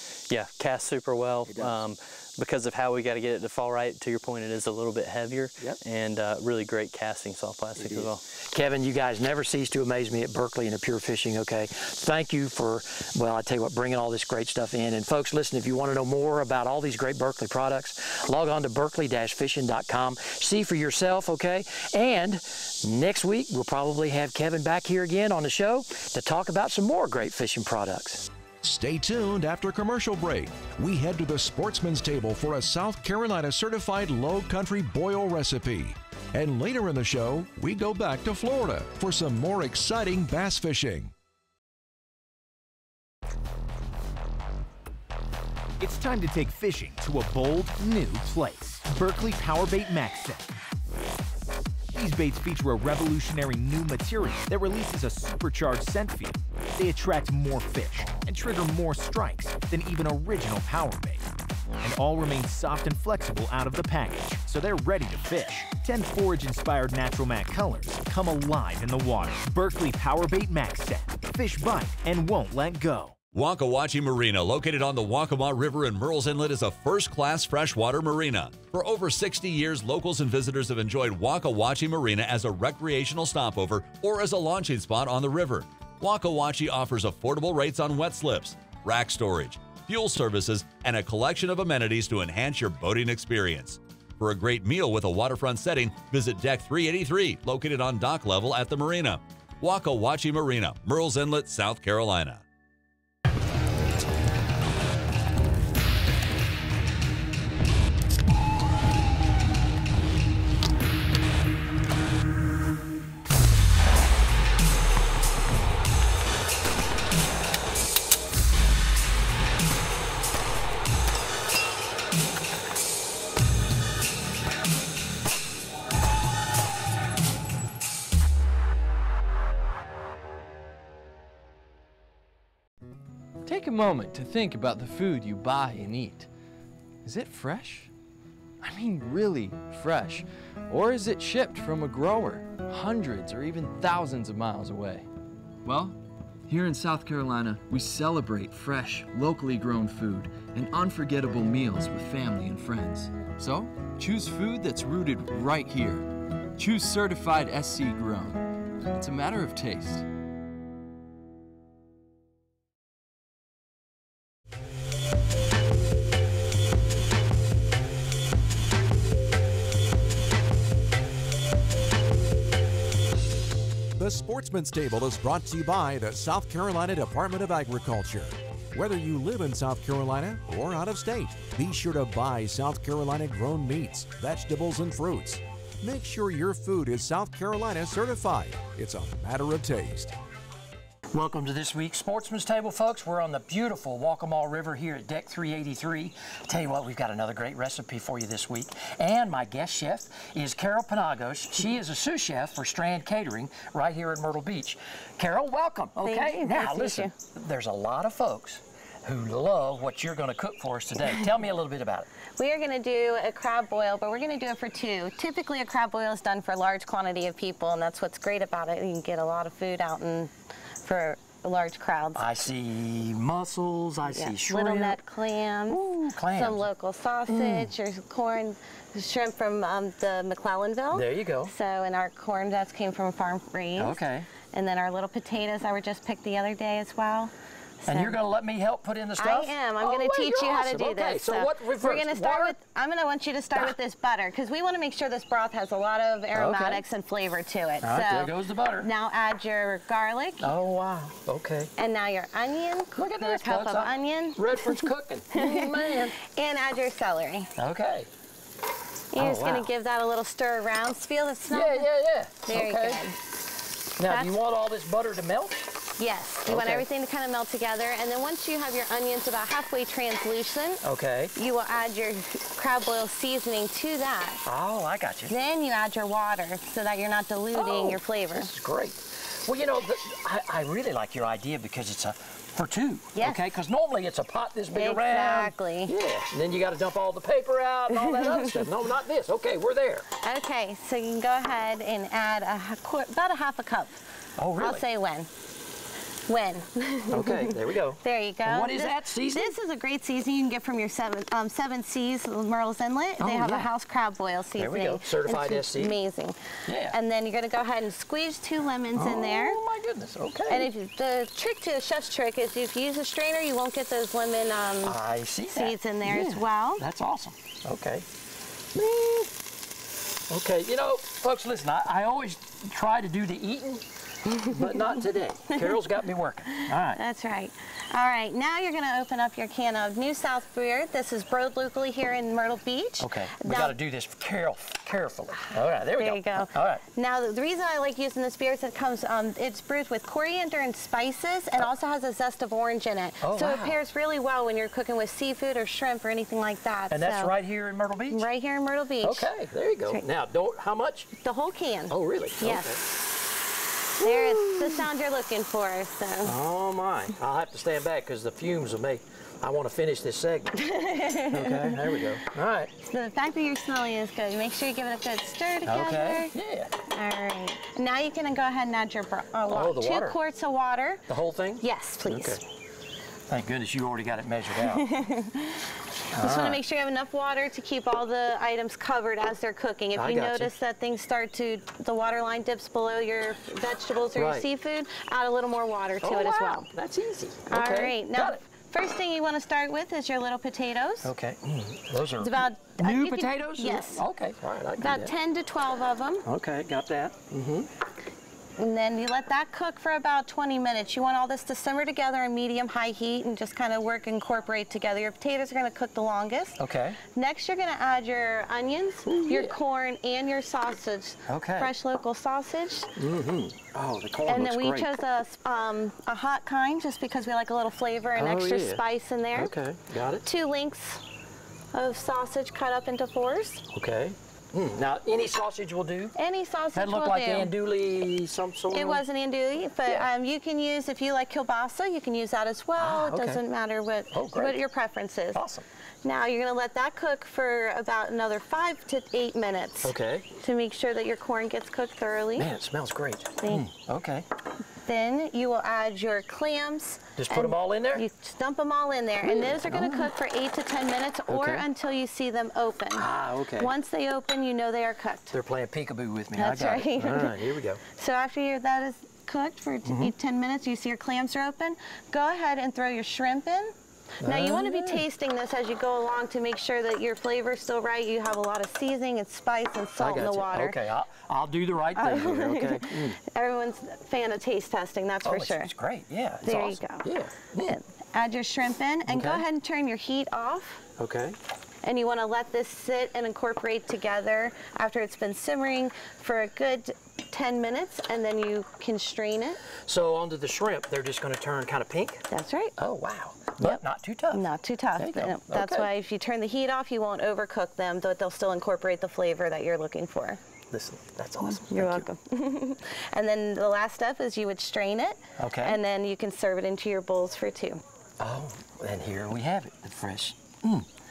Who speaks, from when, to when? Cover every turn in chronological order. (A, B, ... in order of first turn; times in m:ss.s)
0:00.3-0:08.2 A
0:07.8-0:28.3 B
0:28.6-0:41.1 C
0:45.8-0:50.5 D
0:51.9-1:13.1 D
1:13.3-1:42.4 E
2:13.4-2:16.3 F
2:17.0-2:17.9 F
2:18.6-2:25.1 F
2:25.6-2:40.0 F
2:54.0-3:10.1 C
3:11.1-3:32.1 B
3:26.0-3:27.1 G
3:32.4-3:42.2 G
3:42.1-3:45.0 B
3:44.1-3:58.2 G
3:45.7-3:46.7 B
3:47.3-3:47.7 B
3:50.9-3:51.5 B
3:53.8-3:54.3 B
3:57.9-4:02.6 B
3:59.2-4:10.5 G
4:06.3-4:06.8 B
4:07.8-4:08.9 B
4:10.4-4:11.7 B
4:11.8-4:14.8 G
4:13.0-4:16.1 B
4:15.3-4:17.5 G
4:17.6-4:18.1 B
4:19.1-4:21.8 G
4:19.2-4:19.7 B
4:21.5-4:23.0 B
4:22.4-4:23.2 G
4:24.0-4:25.7 B
4:24.0-4:24.3 G
4:26.0-4:30.8 G
4:26.5-4:26.8 B
4:30.8-4:31.3 B
4:31.3-4:34.4 G
4:34.4-4:35.3 B
4:35.3-4:38.5 G
4:37.5-4:50.1 B
4:43.2-4:43.5 G
4:44.7-4:45.9 G
4:50.2-4:54.0 G
4:54.4-4:54.8 B
4:54.6-4:55.3 G
4:56.3-5:06.4 G
4:57.1-4:59.5 B
5:03.2-5:03.7 B
5:04.6-5:06.0 B
5:06.7-5:07.0 B
5:06.9-5:09.6 G
5:09.0-5:10.7 B
5:10.5-5:15.0 G
5:14.8-5:18.0 B
5:15.5-5:16.8 G
5:18.8-5:19.3 B
5:20.3-5:23.8 B
5:24.3-5:24.7 G
5:24.4-5:27.0 B
5:26.5-5:33.7 G
5:33.0-5:36.8 B
5:35.8-5:47.3 G
5:43.2-5:43.8 B
5:46.9-5:48.2 B
5:48.1-5:49.3 G
5:49.0-5:51.1 B
5:51.1-5:52.8 G
5:51.9-5:52.8 B
5:54.0-5:54.8 B
5:54.0-5:56.3 G
5:56.2-6:00.6 B
6:00.6-6:01.9 G
6:01.3-6:02.7 B
6:02.9-6:06.3 G
6:05.6-6:06.7 B
6:06.9-6:11.0 G
6:09.5-6:10.2 B
6:11.1-6:12.4 B
6:11.6-6:12.4 G
6:13.3-6:14.9 B
6:14.7-6:26.7 G
6:16.1-6:16.6 B
6:20.0-6:20.5 B
6:24.1-6:24.5 B
6:26.0-6:28.4 B
6:27.5-6:31.1 G
6:31.0-6:35.1 B
6:32.2-6:34.0 G
6:34.8-6:36.2 G
6:36.2-6:37.7 B
6:38.6-6:52.9 G
6:46.6-6:47.0 B
6:49.0-6:49.6 B
6:51.3-6:51.7 B
6:53.0-6:54.9 B
6:54.3-6:59.5 G
6:58.2-6:58.8 B
6:59.3-7:00.2 B
7:00.2-7:01.0 G
7:01.7-7:03.7 G
7:03.7-7:06.1 B
7:06.2-7:07.5 G
7:06.7-7:09.0 B
7:08.7-7:15.4 G
7:12.8-7:13.4 B
7:14.1-7:14.6 B
7:15.3-7:15.6 B
7:16.0-7:22.5 G
7:19.8-7:20.3 B
7:22.4-7:24.3 B
7:23.4-7:23.7 G
7:24.8-7:35.3 G
7:27.2-7:28.0 B
7:29.2-7:30.1 B
7:31.3-7:31.6 B
7:33.0-7:33.7 B
7:35.3-7:37.8 B
7:36.4-7:50.8 G
7:39.8-7:40.1 B
7:44.2-7:45.0 B
7:50.0-7:53.2 B
7:52.0-7:55.7 G
7:55.2-7:57.7 B
7:56.4-7:57.0 G
7:57.6-8:00.8 G
7:59.1-7:59.4 B
8:01.0-8:01.4 B
8:01.8-8:09.6 G
8:09.8-8:12.2 B
8:12.3-8:12.8 G
8:12.8-8:15.9 B
8:13.6-8:20.4 G
8:20.7-8:22.0 B
8:21.5-8:27.8 G
8:25.4-8:25.8 B
8:28.2-8:30.9 B